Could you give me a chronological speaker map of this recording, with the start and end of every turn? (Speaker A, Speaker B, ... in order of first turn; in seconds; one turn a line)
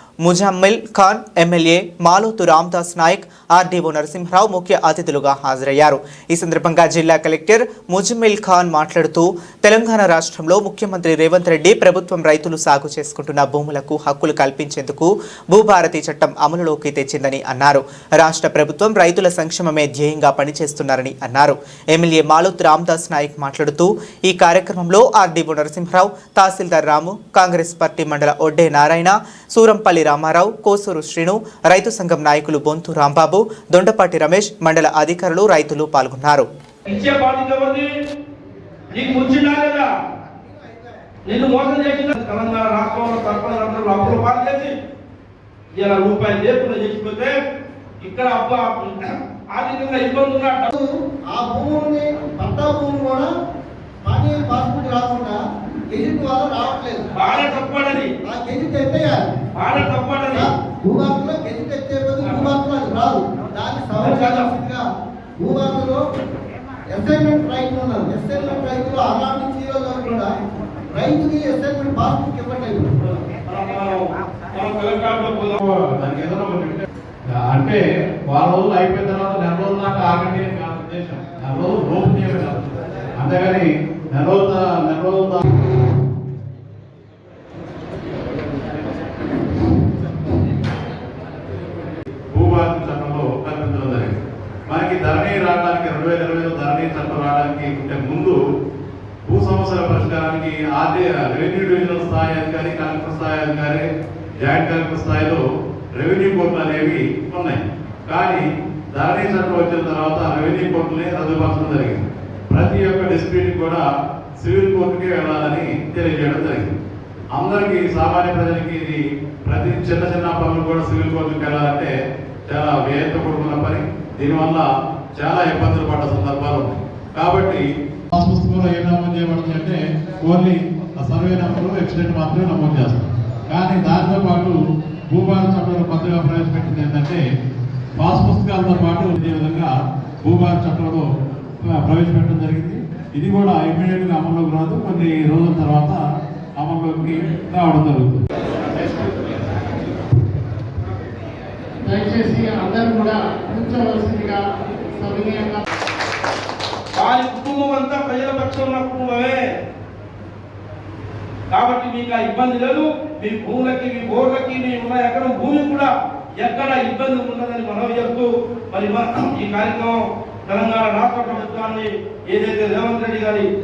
Speaker A: 0.2-36.5
Speaker B: 36.9-37.9
Speaker B: 38.9-39.9
Speaker B: 41.2-44.7
Speaker B: 45.7-47.4
Speaker B: 48.0-50.7
Speaker C: 50.7-53.3
Speaker C: 54.0-55.4
Speaker C: 55.9-57.1
Speaker B: 57.1-58.1
Speaker C: 58.2-59.3
Speaker B: 59.5-60.5
Speaker C: 60.3-64.8
Speaker B: 62.2-62.5
Speaker B: 64.0-64.5
Speaker C: 65.4-66.0
Speaker C: 66.9-70.3
Speaker C: 70.9-72.9
Speaker B: 73.5-75.6
Speaker D: 75.6-85.4
Speaker D: 92.3-94.2
Speaker D: 94.7-98.4
Speaker D: 99.2-103.8
Speaker D: 104.4-105.4
Speaker D: 106.0-113.8
Speaker D: 114.4-116.7
Speaker D: 117.3-121.9
Speaker D: 122.5-134.6
Speaker D: 135.1-137.2
Speaker D: 138.0-141.1
Speaker D: 141.6-146.0
Speaker D: 146.6-148.2
Speaker E: 151.8-154.4
Speaker E: 155.0-155.6
Speaker B: 156.9-159.4
Speaker B: 161.5-173.5